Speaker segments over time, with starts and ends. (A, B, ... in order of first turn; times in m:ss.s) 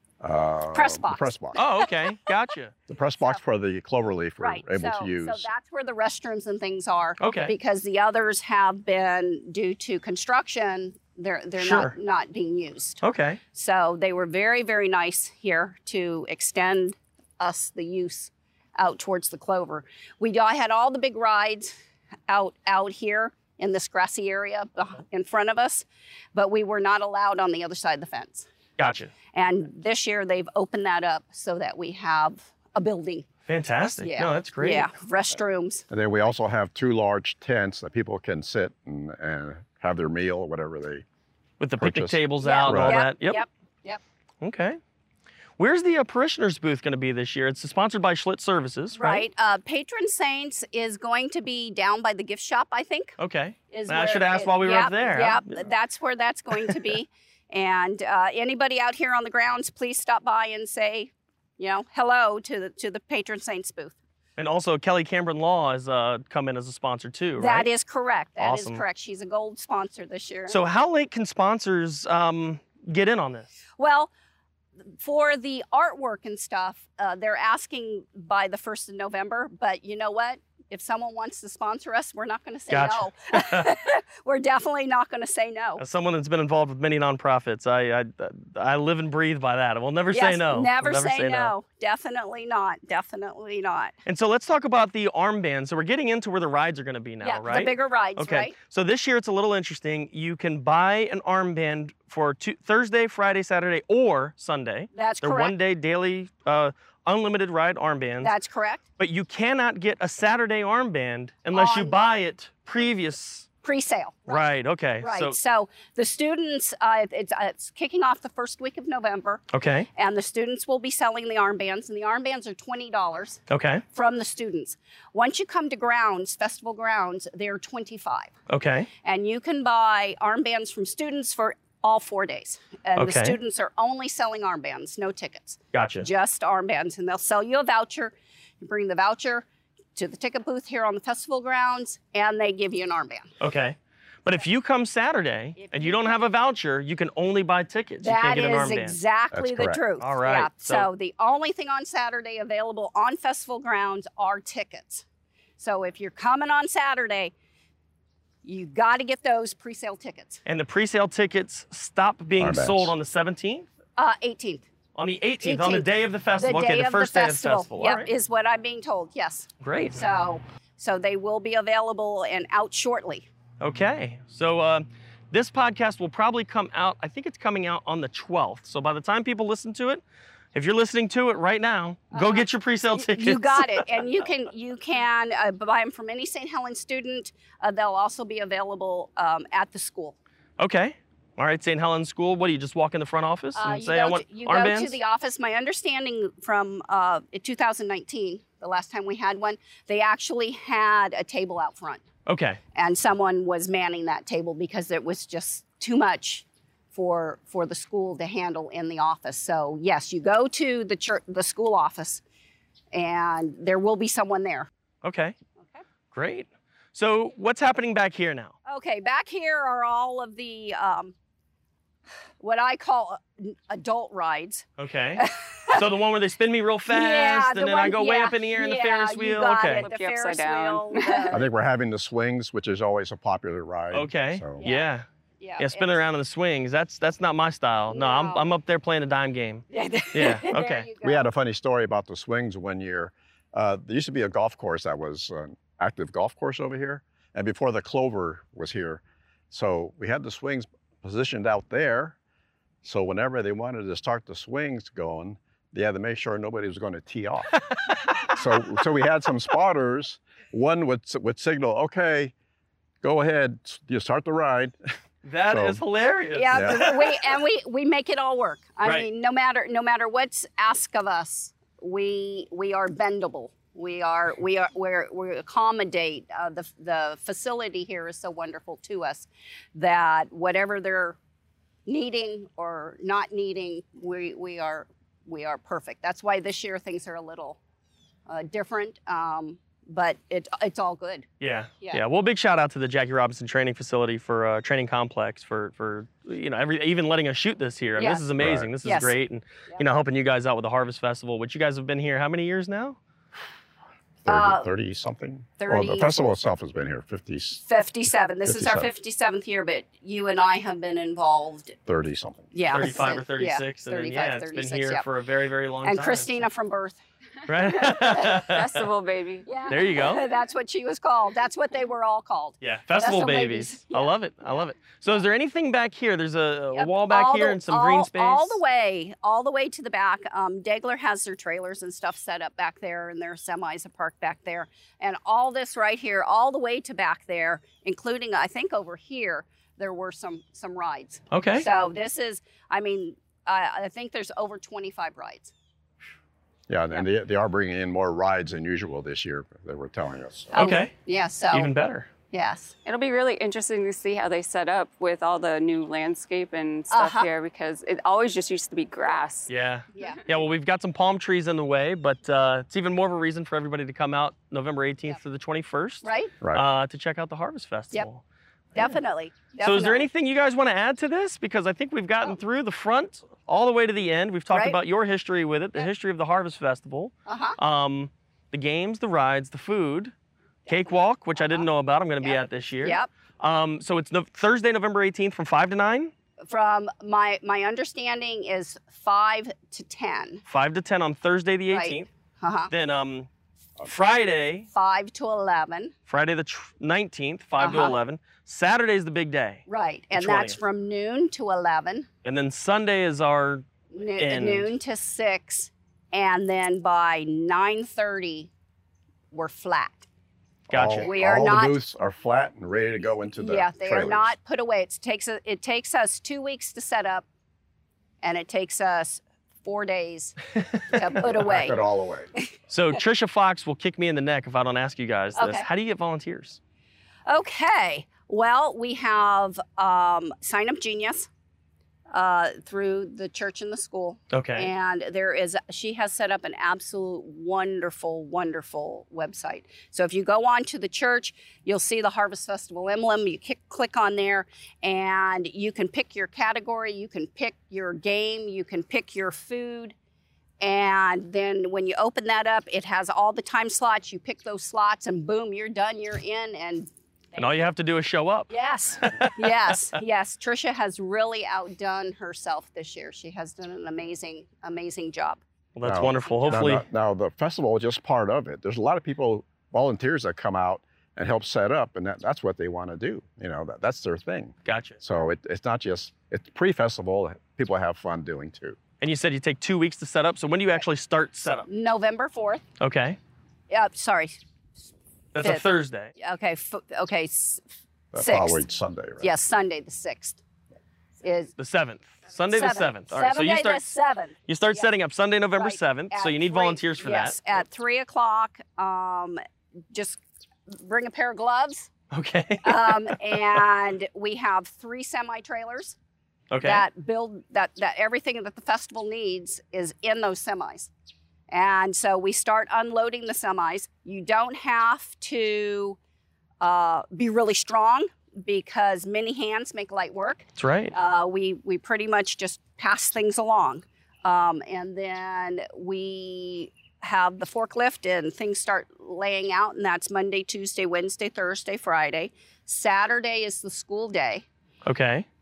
0:00.2-0:01.6 A
0:00.7-0:01.8 B
0:01.5-0:02.7 C
0:02.9-0:05.5 A
0:04.4-0:13.0 B
0:07.2-0:07.5 C
0:11.6-0:11.9 C
0:13.0-0:13.4 C
0:13.5-0:21.7 B
0:22.3-0:28.5 B
0:28.8-0:29.1 C
0:29.3-0:33.3 B
0:33.5-0:34.9 C
0:34.0-0:35.8 B
0:35.9-0:41.0 A
0:41.6-0:43.4 C
0:41.8-0:43.0 A
0:42.4-0:44.0 B
0:44.4-0:44.8 C
0:45.6-0:49.2 C
0:49.0-0:53.2 B
0:53.2-0:55.6 C
0:53.7-1:04.0 B
1:04.4-1:07.7 C
1:07.4-1:10.6 B
1:08.4-1:08.8 C
1:10.5-1:13.6 C
1:13.8-1:14.1 B
1:14.9-1:25.8 B
1:22.7-1:23.7 C
1:25.8-1:31.6 C
1:30.1-1:33.9 B
1:34.0-1:48.3 C
1:37.2-1:38.6 B
1:44.9-1:45.5 B
1:48.2-1:48.8 B
1:49.0-1:53.5 C
1:51.5-1:52.0 B
1:53.6-1:59.4 B
1:54.3-1:55.4 C
1:59.5-1:59.9 C
2:00.0-2:03.4 B
2:03.5-2:03.8 C
2:03.9-2:08.3 B
2:08.5-2:08.9 C
2:09.0-2:23.3 B
2:13.0-2:13.4 C
2:15.7-2:16.1 C
2:23.4-2:29.0 C
2:25.6-2:26.0 B
2:28.0-2:35.0 B
2:29.3-2:29.8 A
2:30.0-2:30.9 C
2:35.6-2:37.3 B
2:38.4-2:40.4 B
2:40.4-2:43.7 C
2:42.4-2:42.9 A
2:44.0-2:44.7 B
2:45.0-2:48.1 C
2:45.4-2:53.3 B
2:49.6-2:50.0 C
2:53.6-3:00.0 C
3:00.5-3:04.0 C
3:02.1-3:10.2 B
3:10.6-3:15.0 C
3:13.6-3:22.0 B
3:22.3-3:22.6 C
3:22.8-3:32.2 B
3:32.9-3:34.7 B
3:35.0-3:35.4 C
3:36.1-3:38.5 C
3:38.7-3:41.1 B
3:42.4-3:45.8 B
3:44.8-3:49.9 C
3:46.9-3:51.5 B
3:49.7-3:51.4 D
3:51.3-3:54.6 A
3:53.9-3:55.1 C
3:54.6-3:54.9 B
3:55.4-3:56.0 B
3:55.6-4:00.9 C
3:57.9-3:58.4 B
3:59.7-4:01.3 B
4:01.0-4:12.2 A
4:12.8-4:17.6 A
4:17.7-4:18.3 C
4:18.3-4:22.3 A
4:23.0-4:24.8 A
4:25.2-4:27.4 C
4:25.5-4:25.8 A
4:26.4-4:41.2 B
4:26.6-4:26.9 A
4:41.9-4:47.6 B
4:48.3-4:51.3 B
4:51.4-5:03.0 C
4:58.0-4:58.2 B
4:58.4-4:58.7 A
4:58.8-4:59.1 B
5:04.2-5:07.6 A
5:04.3-5:04.7 B
5:05.6-5:06.4 B
5:07.6-5:11.8 B
5:08.5-5:08.9 A
5:11.9-5:12.9 A
5:12.5-5:15.0 B
5:12.7-5:16.4 C
5:15.8-5:17.0 B
5:17.4-5:18.6 C
5:18.2-5:19.5 D
5:19.5-5:24.2 B
5:19.7-5:20.3 C
5:22.6-5:28.6 C
5:26.7-5:45.5 B
5:41.3-5:41.7 C
5:46.7-5:50.6 A
5:50.5-5:51.7 B
5:50.6-5:50.9 C
5:51.5-5:52.1 C
5:52.3-5:52.8 B
5:52.8-5:59.5 D
5:56.9-5:57.3 B
5:59.5-6:08.2 C
6:00.0-6:00.3 B
6:06.0-6:06.4 B
6:08.8-6:10.1 B
6:09.6-6:20.1 C
6:14.5-6:14.8 B
6:17.3-6:17.6 B
6:20.7-6:21.7 B
6:20.7-6:26.1 C
6:22.2-6:23.1 B
6:26.4-6:30.4 B
6:30.5-6:32.1 C
6:31.7-6:32.7 B
6:32.7-6:33.3 C
6:33.8-6:34.7 C
6:34.7-6:35.9 B
6:36.1-6:39.6 C
6:37.6-6:38.0 B
6:39.7-6:42.1 B
6:40.1-6:40.6 C
6:42.2-6:44.7 C
6:43.9-6:48.5 B
6:49.3-6:50.1 B
6:50.7-6:51.1 C
6:50.7-6:54.3 A
6:51.0-6:51.8 B
6:53.4-6:57.2 B
6:58.2-7:00.4 B
7:00.9-7:01.8 B
7:01.2-7:02.3 A
7:02.7-7:06.6 C
7:05.4-7:05.7 B
7:07.3-7:11.3 B
7:12.1-7:29.9 B
7:14.3-7:14.7 C
7:30.6-7:37.4 B
7:37.4-7:39.8 C
7:38.5-7:45.4 B
7:45.8-7:46.8 C
7:45.8-7:58.8 A
7:54.6-7:55.0 C
7:59.0-8:01.7 C
8:01.7-8:02.6 B
8:02.8-8:03.2 C
8:03.7-8:04.4 B
8:05.4-8:06.1 C
8:05.4-8:07.6 B
8:08.1-8:09.3 A
8:08.2-8:08.6 B
8:09.2-8:10.4 B
8:11.2-8:11.5 B
8:11.6-8:13.9 C
8:12.5-8:14.9 B
8:14.5-8:17.6 C
8:15.6-8:19.4 B
8:19.9-8:21.9 B
8:22.1-8:23.6 C
8:22.6-8:26.0 B
8:26.5-8:26.8 C
8:26.6-8:30.9 B
8:31.5-8:36.0 B
8:36.6-8:54.4 B
8:40.6-8:40.9 C
8:54.8-8:55.3 C